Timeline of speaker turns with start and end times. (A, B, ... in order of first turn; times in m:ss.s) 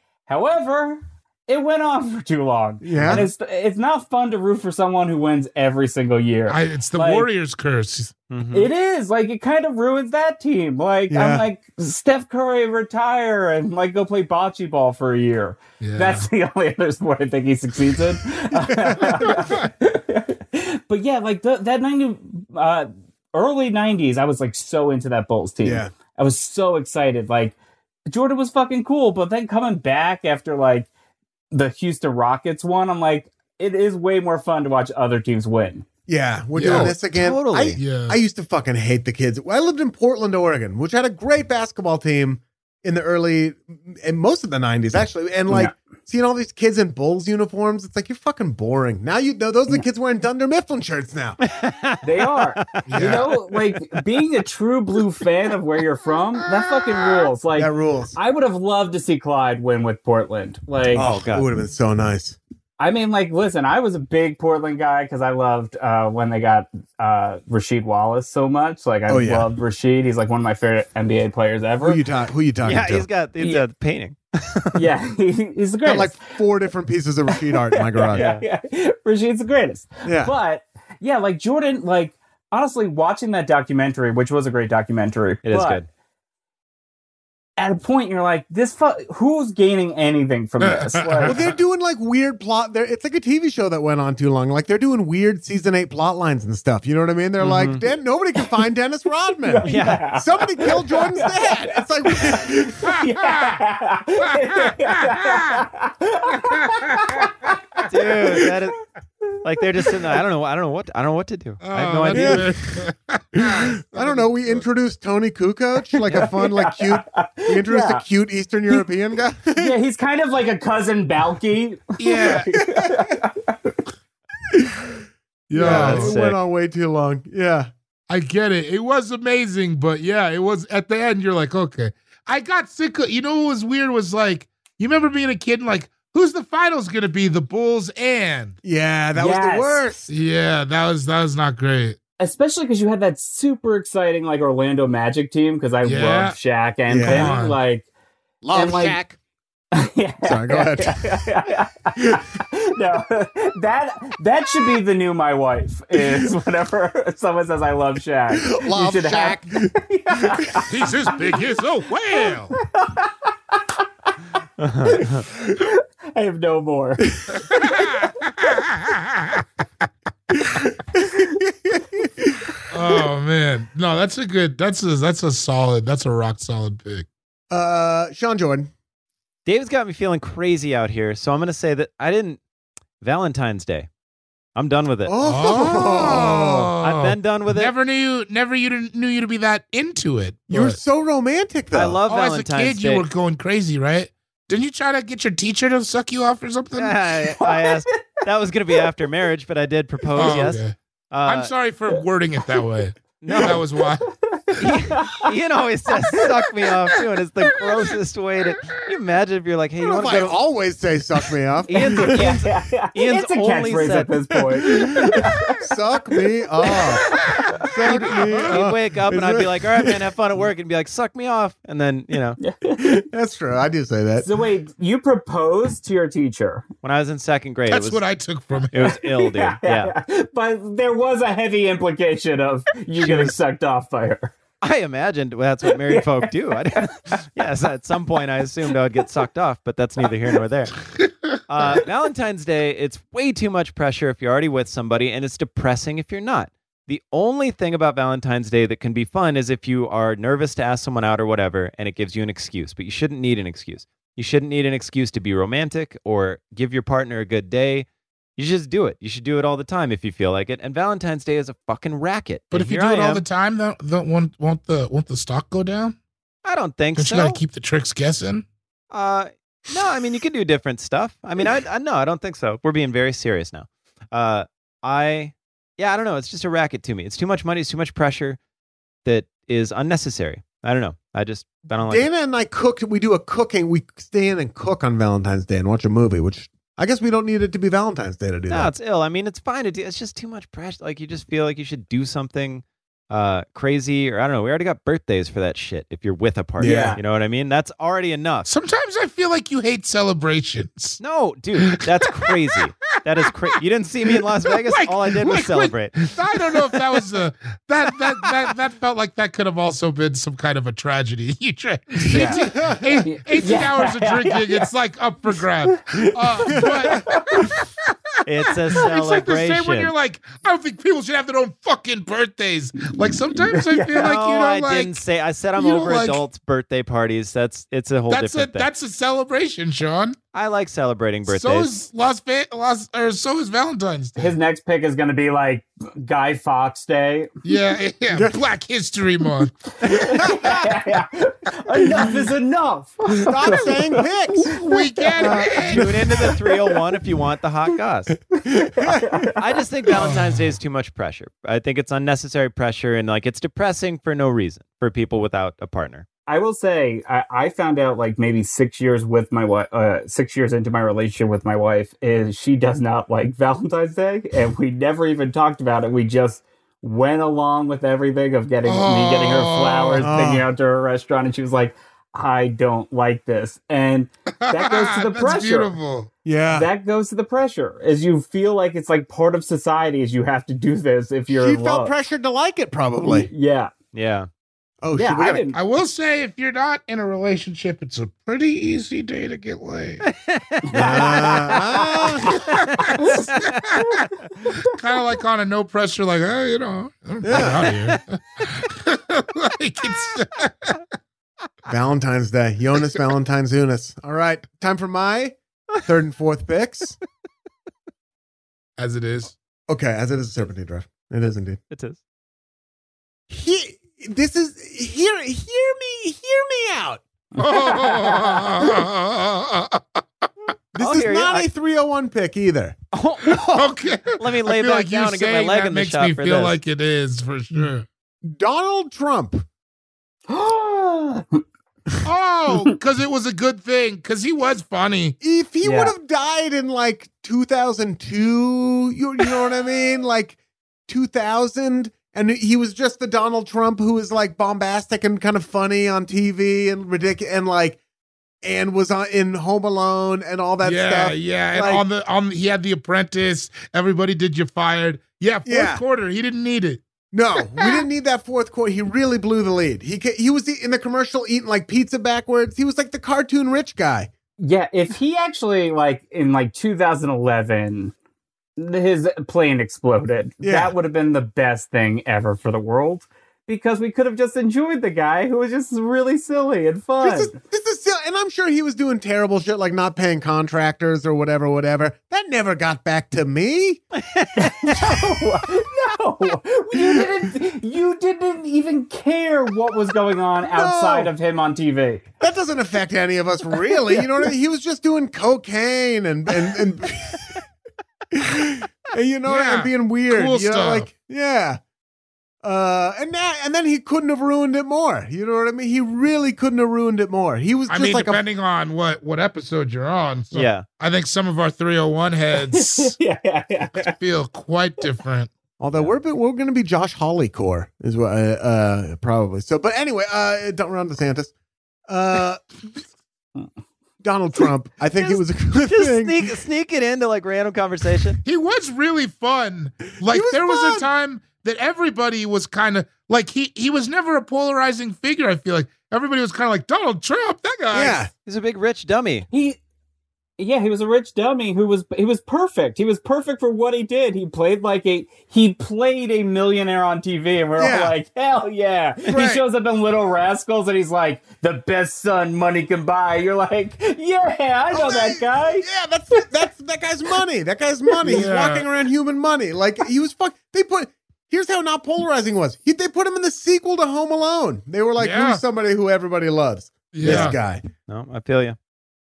0:00.3-0:07.3 A
0:02.8-0:03.3 B
0:06.5-0:08.1 C
0:08.3-0:08.7 D
0:08.5-0:27.6 A
0:11.1-0:11.5 B
0:15.8-0:16.3 C
0:18.5-0:19.2 B
0:19.1-0:19.7 C
0:25.6-0:25.9 B
0:28.1-0:30.9 A
0:31.5-0:35.8 A
0:36.1-0:51.4 B
0:36.6-0:37.0 C
0:36.6-0:37.8 D
0:37.8-0:38.2 C
0:45.5-0:45.8 A
0:51.4-0:54.0 D
0:52.0-1:01.1 A
0:52.9-0:53.3 C
0:56.8-0:57.3 C
0:57.5-0:58.2 B
1:00.9-1:01.5 D
1:00.9-1:02.4 B
1:02.8-1:12.0 A
1:09.1-1:09.5 B
1:11.8-1:13.1 B
1:12.6-1:14.9 D
1:14.7-1:16.4 A
1:15.8-1:18.3 B
1:17.3-1:25.8 A
1:18.1-1:18.4 D
1:20.0-1:20.3 B
1:25.4-1:25.9 D
1:27.6-1:31.4 A
1:30.6-1:31.4 C
1:31.3-1:43.0 B
1:37.4-1:37.8 D
1:39.5-1:47.6 A
1:39.6-1:40.1 D
1:42.8-1:43.6 C
1:44.2-1:45.6 C
1:46.5-1:47.3 C
1:47.8-1:48.8 D
1:49.3-1:49.9 A
1:49.4-1:52.5 D
1:51.6-1:54.6 C
1:52.1-1:52.6 B
1:53.4-1:59.8 B
1:56.1-1:58.0 A
1:59.6-2:03.8 A
2:02.0-2:02.6 C
2:02.6-2:03.0 B
2:04.5-2:07.7 B
2:05.5-2:06.1 C
2:05.6-2:06.4 D
2:08.1-2:18.6 C
2:18.6-2:20.1 B
2:19.2-2:19.8 A
2:20.1-2:22.0 C
2:22.2-2:27.8 A
2:25.8-2:26.4 C
2:26.9-2:27.3 B
2:27.1-2:27.6 C
2:28.4-2:29.2 B
2:28.5-2:29.0 A
2:29.8-2:40.7 A
2:30.2-2:31.3 B
2:32.0-2:32.2 B
2:38.3-2:40.6 B
2:40.7-2:42.6 C
2:42.6-2:43.6 A
2:44.6-2:45.2 D
2:44.9-2:47.2 A
2:47.3-2:49.9 C
2:50.4-2:52.6 B
2:52.7-2:57.1 C
2:57.5-2:58.7 B
2:59.5-3:02.4 D
3:03.0-3:03.9 D
3:04.6-3:05.2 D
3:05.0-3:06.7 B
3:05.2-3:10.8 C
3:06.8-3:07.7 D
3:10.5-3:12.0 B
3:11.7-3:13.0 D
3:12.1-3:17.0 C
3:16.8-3:21.5 D
3:17.4-3:18.2 A
3:20.2-3:24.1 C
3:23.2-3:23.6 D
3:24.1-3:25.3 A
3:24.6-3:30.4 D
3:29.8-3:32.3 B
3:31.7-3:34.1 D
3:31.8-3:35.7 A
3:34.6-3:40.0 B
3:36.6-3:37.7 A
3:37.9-3:42.4 D
3:37.9-3:38.6 C
3:42.4-3:43.0 A
3:42.8-3:44.3 B
3:44.2-3:46.7 A
3:46.8-3:48.0 D
3:47.7-3:48.7 C
3:48.7-3:49.9 D
3:48.8-3:54.3 A
3:53.0-3:53.3 D
3:54.6-4:00.8 D
3:55.7-3:57.2 A
4:01.5-4:23.2 D
4:22.5-4:26.0 C
4:26.4-4:27.4 D
4:27.0-4:28.5 C
4:28.9-4:38.4 D
4:39.0-4:42.1 D
4:41.8-4:48.7 B
4:48.5-4:58.5 D
4:56.6-4:57.0 B
4:56.6-4:57.0 A
4:58.5-5:01.0 C
5:01.0-5:06.1 D
5:01.7-5:02.3 C
5:04.6-5:17.6 C
5:12.0-5:13.0 B
5:12.1-5:12.4 A
5:13.0-5:14.7 A
5:16.4-5:17.5 B
5:16.5-5:17.5 A
5:18.3-5:19.9 D
5:18.7-5:25.0 C
5:23.3-5:24.0 A
5:24.0-5:28.7 D
5:25.6-5:26.2 C
5:28.1-5:30.2 C
5:30.3-5:31.7 D
5:31.3-5:34.3 C
5:34.2-5:37.3 A
5:37.4-5:39.6 C
5:38.1-5:38.4 B
5:39.8-5:45.1 A
5:39.9-5:40.6 B
5:43.2-5:44.6 B
5:44.5-5:45.9 C
5:45.2-5:46.2 B
5:45.6-5:48.2 D
5:48.4-5:49.3 B
5:48.7-5:49.4 A
5:49.4-5:56.1 D
5:49.9-5:50.4 C
5:56.3-6:15.7 A
6:08.6-6:10.1 C
6:10.0-6:10.5 B
6:14.4-6:16.1 C
6:16.2-6:16.7 B
6:16.5-6:21.9 A
6:21.3-6:23.3 B
6:23.0-6:23.7 A
6:23.9-6:24.3 D
6:24.8-6:25.5 B
6:25.0-6:25.6 A
6:25.5-6:30.1 C
6:30.0-6:33.6 D
6:30.7-6:32.3 B
6:32.3-6:40.8 C
6:37.2-6:37.7 B
6:37.3-6:38.0 D
6:41.7-6:47.0 B
6:48.8-6:49.3 C
6:49.7-6:51.6 B
6:51.7-6:52.0 D
6:53.3-6:57.0 B
6:57.4-6:58.5 A
6:57.4-7:00.3 C
7:00.8-7:02.8 B
7:00.8-7:01.5 D
7:02.9-7:06.6 D
7:03.4-7:07.9 C
7:08.2-7:09.4 B
7:10.3-7:11.4 A
7:12.0-7:15.2 C
7:15.2-7:27.8 B
7:15.6-7:16.0 A
7:28.4-7:31.8 B
7:30.6-7:36.8 C
7:35.5-7:35.8 B
7:37.1-7:44.1 B
7:44.4-7:47.9 A
7:48.6-7:57.4 A
7:50.4-7:50.7 B
7:57.0-8:03.8 B
8:03.9-8:04.9 D
8:04.4-8:12.0 A
8:10.5-8:11.1 B
8:12.2-8:17.4 B
8:18.1-8:21.6 B
8:19.3-8:20.9 C
8:22.4-8:28.2 B
8:27.7-8:33.0 C
8:30.3-8:30.6 D
8:32.5-8:34.0 A
8:33.8-8:35.3 C
8:35.6-8:41.3 B
8:41.9-8:42.8 B
8:44.0-8:46.4 B
8:45.0-8:48.2 D
8:48.2-8:58.0 C
8:50.0-8:50.9 B
8:57.7-8:58.1 B
8:58.3-8:59.3 D
8:59.3-8:59.6 A
9:00.4-9:15.7 A
9:07.6-9:08.0 B
9:09.1-9:09.4 B
9:14.7-9:27.6 B
9:18.0-9:18.7 C
9:25.0-9:25.4 C
9:26.9-9:27.4 C
9:27.0-9:28.6 D